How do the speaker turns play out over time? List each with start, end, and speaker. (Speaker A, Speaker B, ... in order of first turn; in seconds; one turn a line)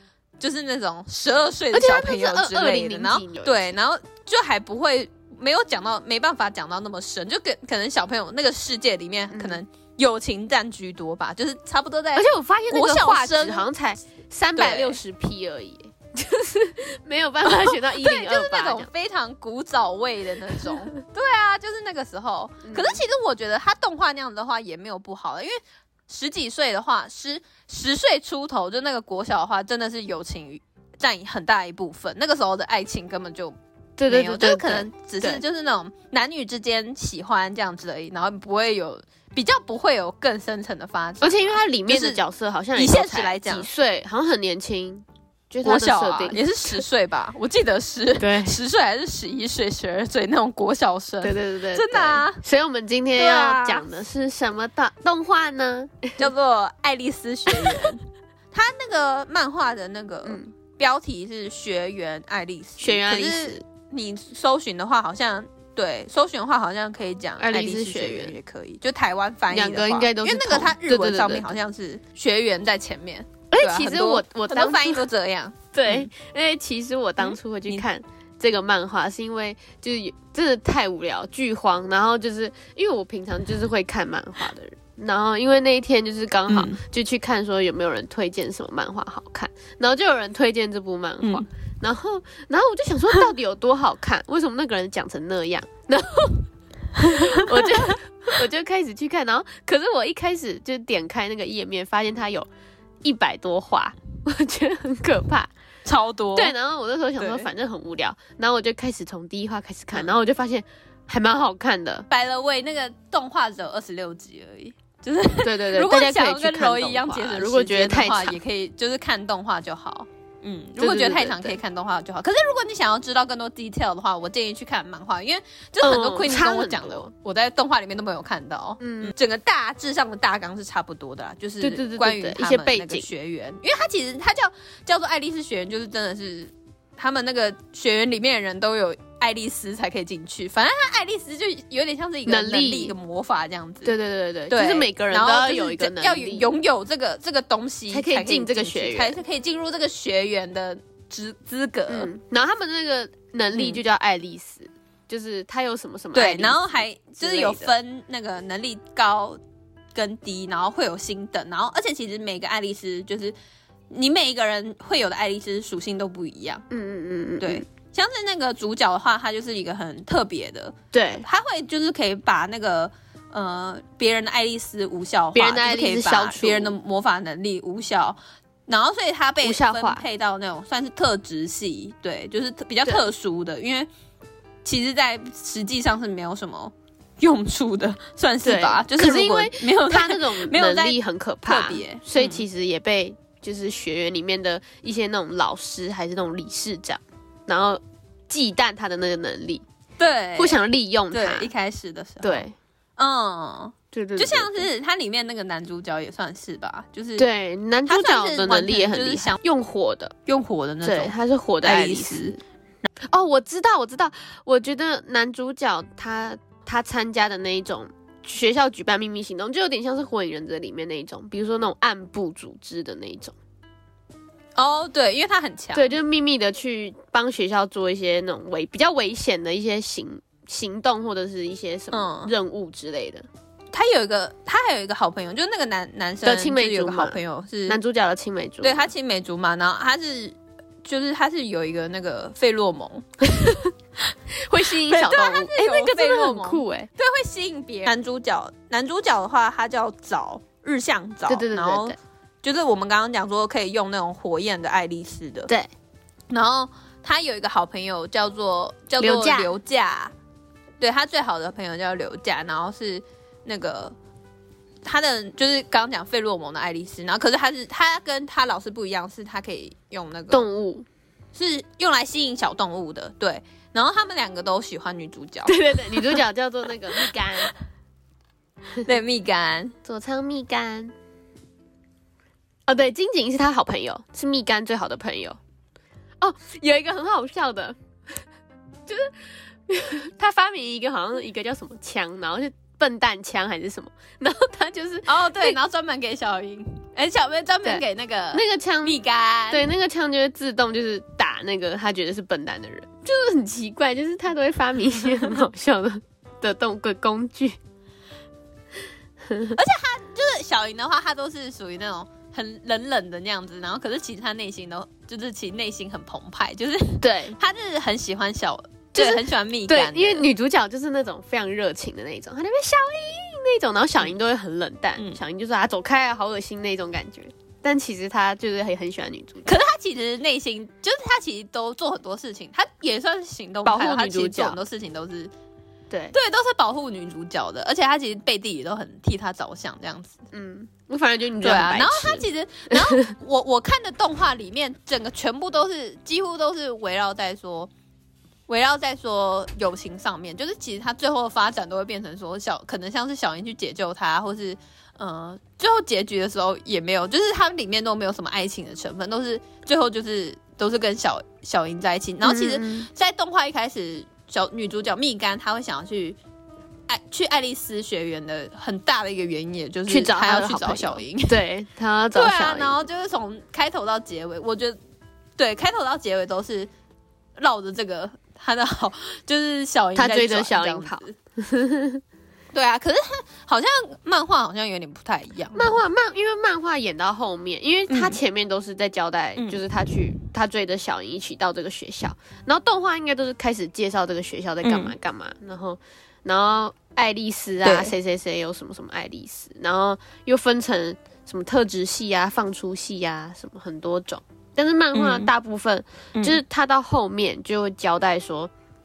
Speaker A: 0.4-13.7
Speaker B: 1.7-3.7
Speaker B: 9.3-9.6
Speaker B: 12.1-18.9
Speaker A: 14.6-15.0
Speaker A: 17.5-33.5
Speaker B: 22.6-23.0
Speaker B: 34.0-35.4
Speaker A: 34.1-42.2
Speaker B: 41.2-46.8
Speaker A: 42.8-43.7
Speaker A: 45.6-52.4
Speaker B: 48.2-48.6
Speaker B: 51.2-56.2
Speaker A: 53.1-53.9
Speaker A: 56.2-58.0
Speaker B: 57.5-57.9
Speaker A: 58.5-76.1
Speaker B: 60.2-60.5
Speaker B: 62.8-63.6
Speaker B: 67.4-68.3
Speaker B: 69.5-71.5
Speaker B: 73.5-75.0
Speaker B: 75.7-96.5
Speaker A: 77.2-77.8
Speaker A: 86.5-86.8
Speaker A: 91.2-91.5
Speaker B: 97.0-102.5
Speaker A: 97.0-97.9
Speaker B: 103.0-105.5
Speaker A: 105.8-106.5
Speaker B: 106.3-112.1
Speaker A: 107.2-107.5
Speaker A: 112.1-143.9
Speaker B: 115.4-118.4
Speaker B: 120.8-121.6
Speaker B: 125.8-127.1
Speaker B: 128.8-129.1
Speaker B: 131.6-133.1
Speaker B: 142.2-142.9
Speaker B: 143.8-146.5
Speaker A: 144.5-152.1
Speaker B: 147.9-149.2
Speaker B: 151.9-157.7
Speaker A: 153.5-153.8
Speaker A: 156.1-159.4
Speaker A: 159.9-163.3
Speaker A: 163.9-166.6
Speaker B: 166.7-167.6
Speaker A: 167.4-183.9
Speaker B: 170.9-171.3
Speaker B: 175.3-176.8
Speaker B: 179.4-180.1
Speaker A: 184.6-192.4
Speaker B: 188.4-199.6
Speaker A: 200.0-200.6
Speaker B: 200.4-201.5
Speaker A: 201.1-202.4
Speaker B: 202.2-202.6
Speaker A: 203.0-207.3
Speaker B: 203.9-204.7
Speaker B: 207.2-210.1
Speaker A: 207.9-209.4
Speaker A: 210.3-212.4
Speaker B: 210.8-212.4
Speaker B: 213.1-223.3
Speaker A: 224.6-225.9
Speaker B: 225.7-233.3
Speaker A: 231.9-232.3
Speaker A: 233.7-237.8
Speaker B: 236.2-238.9
Speaker A: 238.6-243.1
Speaker B: 243.2-243.7
Speaker B: 244.3-246.9
Speaker A: 244.7-255.5
Speaker B: 251.3-251.9
Speaker A: 256.3-260.1
Speaker B: 259.0-259.5
Speaker A: 260.8-263.9
Speaker A: 264.9-270.4
Speaker B: 270.3-270.9
Speaker A: 271.4-276.2
Speaker B: 275.4-277.5
Speaker A: 278.9-279.8
Speaker B: 279.9-280.9
Speaker B: 282.7-285.4
Speaker B: 286.2-287.8
Speaker B: 288.9-289.1
Speaker B: 289.7-295.6
Speaker A: 295.1-299.7
Speaker B: 297.6-299.0
Speaker B: 299.5-307.6
Speaker B: 309.3-309.6
Speaker A: 309.5-320.3
Speaker B: 317.0-317.4
Speaker B: 318.9-329.6
Speaker A: 329.4-335.3
Speaker B: 333.6-334.6
Speaker B: 335.9-336.1
Speaker A: 336.1-340.2
Speaker B: 340.3-343.1
Speaker A: 341.4-347.7
Speaker A: 348.5-366.2
Speaker B: 362.2-362.9
Speaker A: 366.9-371.4
Speaker B: 369.9-372.8
Speaker A: 372.1-374.8
Speaker A: 375.4-376.7
Speaker A: 377.4-381.1
Speaker B: 379.9-382.0
Speaker A: 382.5-385.8
Speaker B: 385.5-408.5
Speaker A: 387.9-388.2
Speaker A: 389.4-389.6
Speaker A: 394.6-394.9
Speaker A: 397.6-397.9
Speaker A: 404.9-405.3